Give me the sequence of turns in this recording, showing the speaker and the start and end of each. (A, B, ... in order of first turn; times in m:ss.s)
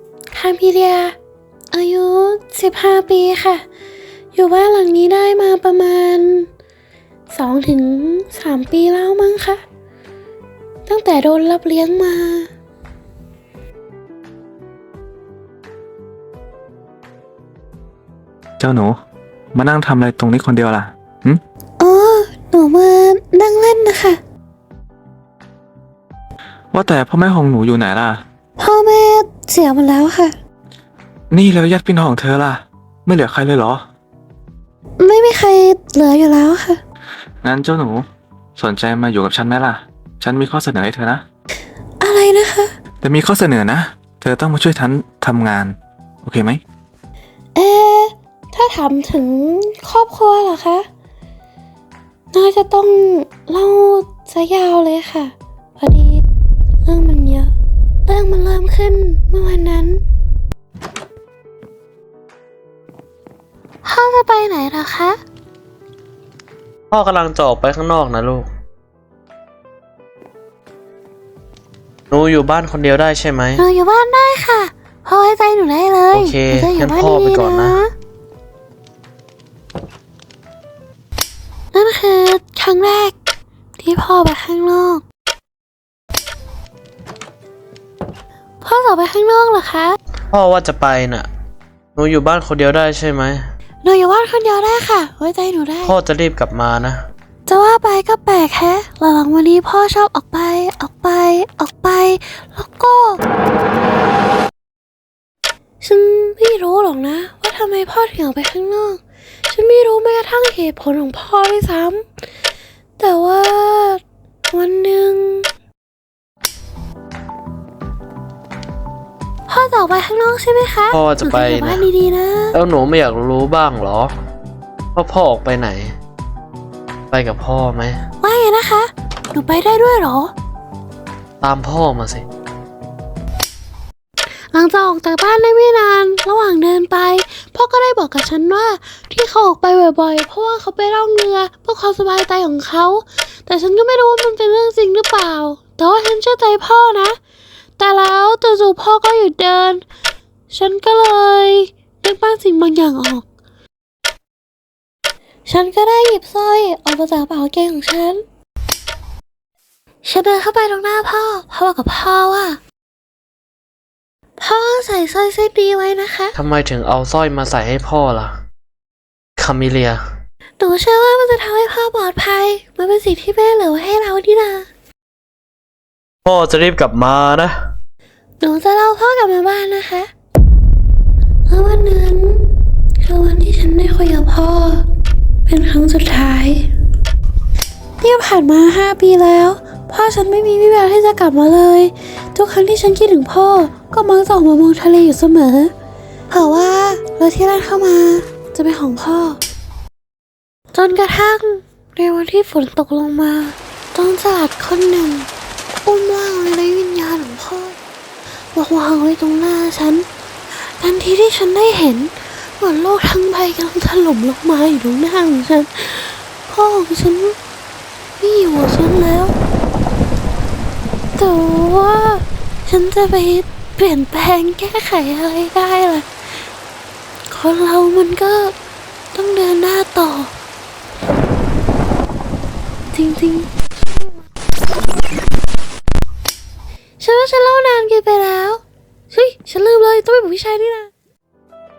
0:00.3-0:01.2 A
0:01.7-0:03.6 A
0:04.3-0:06.5 A
0:07.3-0:09.6 A
0:10.8-0:12.5 A
0:18.6-0:19.0 B
0:19.5-0:21.4 B
0:21.8-0:24.2 A
0:26.7-0:28.2 B
0:28.6-0:30.3 A
0:31.3-0:33.8 B
0:35.0-0:36.8 A
0:37.4-0:38.0 B
0:38.6-0:41.2 B
0:42.0-0:42.7 A
0:43.0-0:46.6 B
0:47.6-0:50.9 A
0:52.3-0:56.2 A
0:56.8-0:57.5 A
0:58.0-1:00.0 A
1:03.8-1:05.2 A
1:06.9-1:08.5 C
1:12.1-1:13.6 C
1:13.6-1:17.9 A
1:16.1-1:17.8 C
1:21.7-1:23.1 A
1:23.8-1:25.0 A
1:28.6-1:30.0 A
1:30.3-1:31.2 C
1:32.0-1:33.4 C
1:33.8-1:35.9 A
1:35.8-1:37.0 C
1:37.5-1:43.2 A
1:45.8-1:52.0 A
1:53.0-1:55.5 A
1:59.5-2:02.6 A
2:00.9-2:01.8 C
2:02.5-2:04.1 C
2:05.0-2:05.9 C
2:07.1-2:08.0 C
2:08.2-2:10.3 A
2:11.4-2:12.2 C
2:14.5-2:27.2 A
2:27.8-2:29.8 A
2:30.5-2:33.2 A
2:35.5-2:38.2 A
2:40.0-2:42.6 A
2:44.4-2:46.3 A
2:46.3-2:48.3 C
2:49.4-2:50.0 C
2:50.6-2:54.7 A
2:56.2-2:57.5 C
2:58.4-3:00.1 A
3:01.5-3:02.5 A
3:03.0-3:04.9 A
3:05.4-3:06.7 A
3:08.0-3:15.7 A
3:16.3-3:19.4 A
3:20.7-3:25.3 A
3:25.8-3:27.8 A
3:28.5-3:30.0 A
3:30.8-3:37.4 A
3:38.2-3:39.3 A
3:41.2-3:46.1 A
3:47.3-3:48.5 A
3:49.1-3:50.3 A
3:52.9-3:53.5 A
3:57.0-4:00.9 A